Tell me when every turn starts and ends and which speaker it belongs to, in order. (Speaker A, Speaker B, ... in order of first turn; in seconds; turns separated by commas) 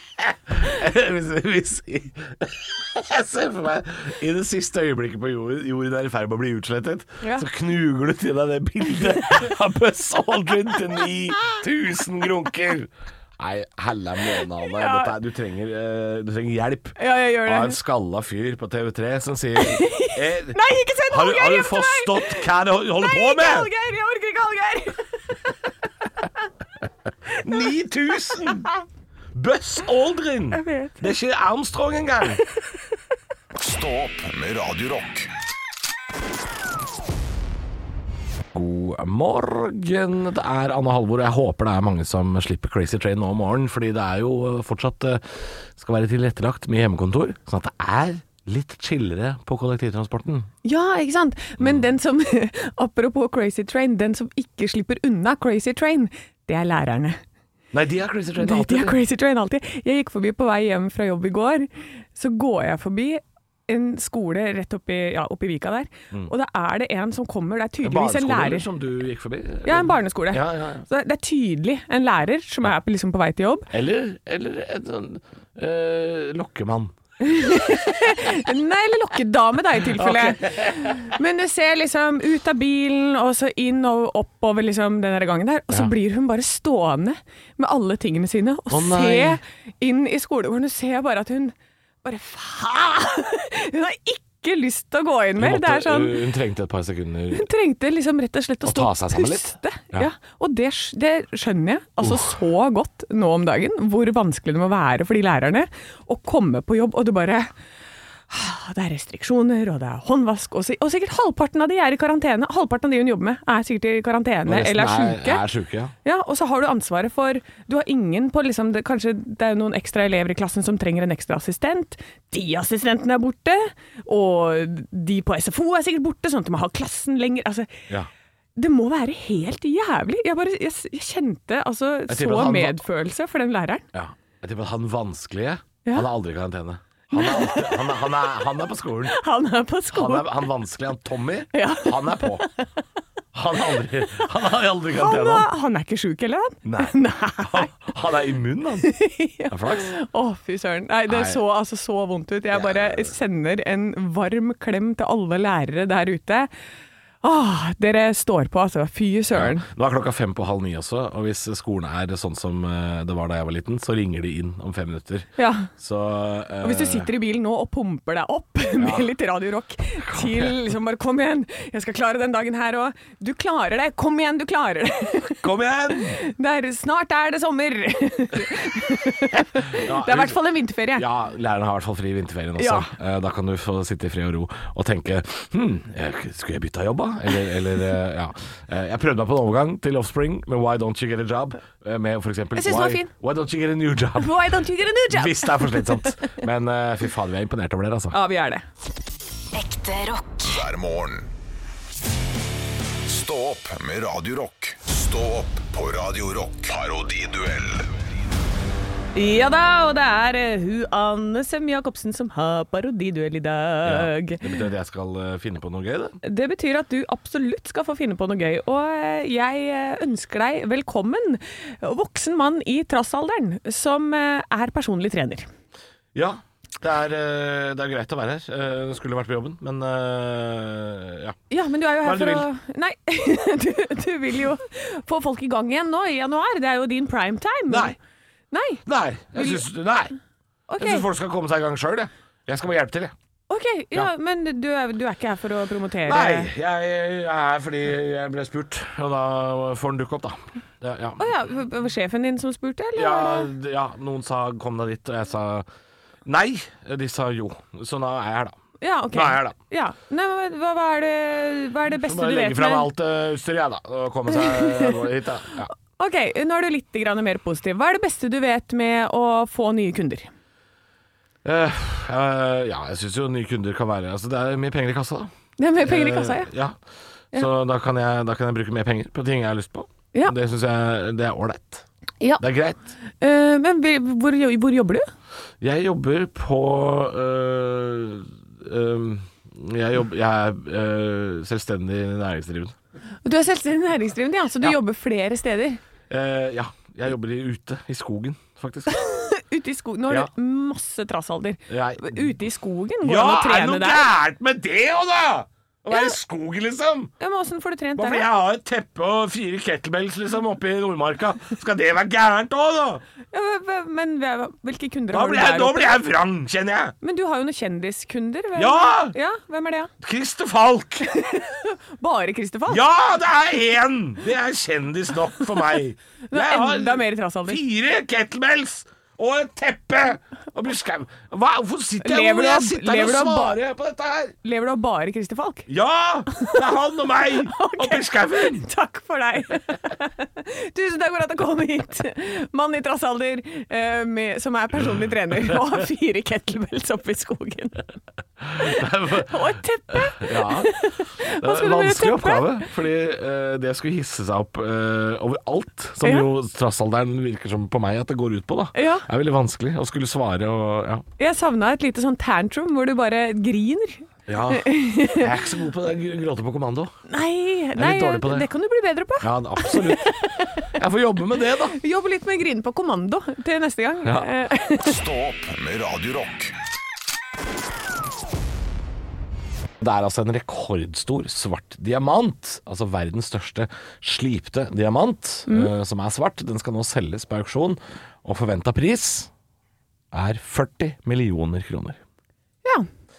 Speaker A: 0.2-23.7, Speaker B: 7.2-7.5, Speaker B: 14.6-15.1, Speaker B: 17.0-17.8, Speaker B: 19.6-25.5, Speaker A: 27.4-28.7, Speaker B: 28.3-28.7, Speaker A: 29.3-32.4, Speaker B: 30.5-31.1, Speaker C: 33.5-35.3, Speaker A: 38.5-50.5, Speaker B: 50.6-57.2, Speaker A: 57.7-59.0, Speaker B: 58.4-68.7, Speaker A: 67.8-70.8, Speaker B: 69.6-73.7, Speaker A: 73.7-76.9, Speaker B: 77.2-96.2, Speaker A: 79.9-81.1, Speaker A: 88.7-89.4, Speaker A: 95.4-97.5, Speaker B: 97.3-107.5, Speaker A: 98.6-100.1, Speaker A: 102.0-102.3, Speaker B: 108.3-115.4, Speaker A: 114.5-115.9, Speaker B: 116.0-127.9, Speaker B: 128.6-133.8, Speaker A: 132.1-132.8, Speaker A: 133.9-139.2, Speaker B: 137.1-138.0, Speaker B: 139.1-140.3, Speaker A: 139.9-142.5, Speaker B: 141.5-142.6, Speaker A: 143.3-145.5, Speaker B: 144.9-147.7, Speaker A: 146.6-148.9, Speaker B: 148.8-156.5, Speaker A: 149.5-149.9, Speaker A: 151.1-151.4, Speaker A: 152.5-153.1, Speaker B: 157.2-159.7, Speaker A: 159.3-167.1, Speaker B: 165.4-165.7, Speaker B: 166.6-181.1, Speaker A: 168.8-169.1, Speaker A: 170.0-170.6, Speaker A: 175.4-176.2, Speaker A: 179.6-180.4, Speaker A: 180.9-194.4, Speaker B: 182.6-182.9, Speaker B: 192.5-193.1, Speaker B: 194.2-196.4, Speaker A: 195.1-198.2, Speaker B: 198.1-198.6, Speaker C: 199.5-201.3, Speaker C: 203.0-207.9, Speaker B: 209.1-214.4, Speaker A: 213.8-216.2, Speaker B: 216.2-225.5, Speaker A: 226.1-231.4, Speaker B: 231.5-237.9, Speaker A: 232.0-232.5, Speaker A: 237.7-237.9, Speaker B: 238.5-238.8, Speaker A: 238.8-240.1, Speaker B: 239.3-239.6, Speaker B: 240.7-241.1, Speaker A: 240.8-243.1, Speaker B: 243.5-246.5, Speaker A: 246.0-251.3, Speaker B: 251.2-253.5, Speaker A: 252.9-255.7, Speaker A: 256.2-258.6, Speaker B: 258.8-262.9, Speaker A: 259.1-259.5, Speaker A: 262.0-265.7, Speaker B: 264.3-265.0, Speaker B: 265.9-270.3, Speaker A: 271.4-276.8, Speaker B: 275.6-276.5, Speaker A: 277.3-281.8, Speaker A: 282.4-282.8, Speaker B: 283.2-285.1, Speaker A: 285.6-292.7, Speaker B: 293.2-295.8, Speaker A: 296.1-299.0, Speaker B: 298.9-304.1, Speaker A: 301.7-302.3, Speaker A: 303.0-307.1, Speaker B: 305.9-306.1, Speaker B: 307.2-308.3, Speaker A: 307.9-313.0, Speaker B: 313.3-316.0, Speaker A: 315.1-316.9, Speaker B: 317.0-319.9, Speaker A: 318.6-319.1, Speaker A: 320.0-321.1, Speaker B: 321.1-322.8, Speaker A: 322.7-334.3, Speaker B: 326.3-327.6, Speaker B: 332.0-333.6, Speaker B: 334.4-335.7, Speaker A: 335.7-338.7, Speaker B: 336.3-336.6, Speaker B: 337.4-347.9, Speaker A: 348.4-349.4, Speaker B: 349.1-352.7, Speaker A: 349.9-361.1, Speaker B: 358.7-359.1, Speaker B: 361.2-365.3, Speaker A: 364.3-366.9, Speaker B: 367.1-370.7, Speaker A: 367.8-368.5, Speaker A: 369.2-371.8, Speaker B: 371.7-375.0, Speaker A: 374.0-374.3, Speaker C: 374.7-376.5, Speaker A: 379.8-389.3, Speaker A: 390.1-392.0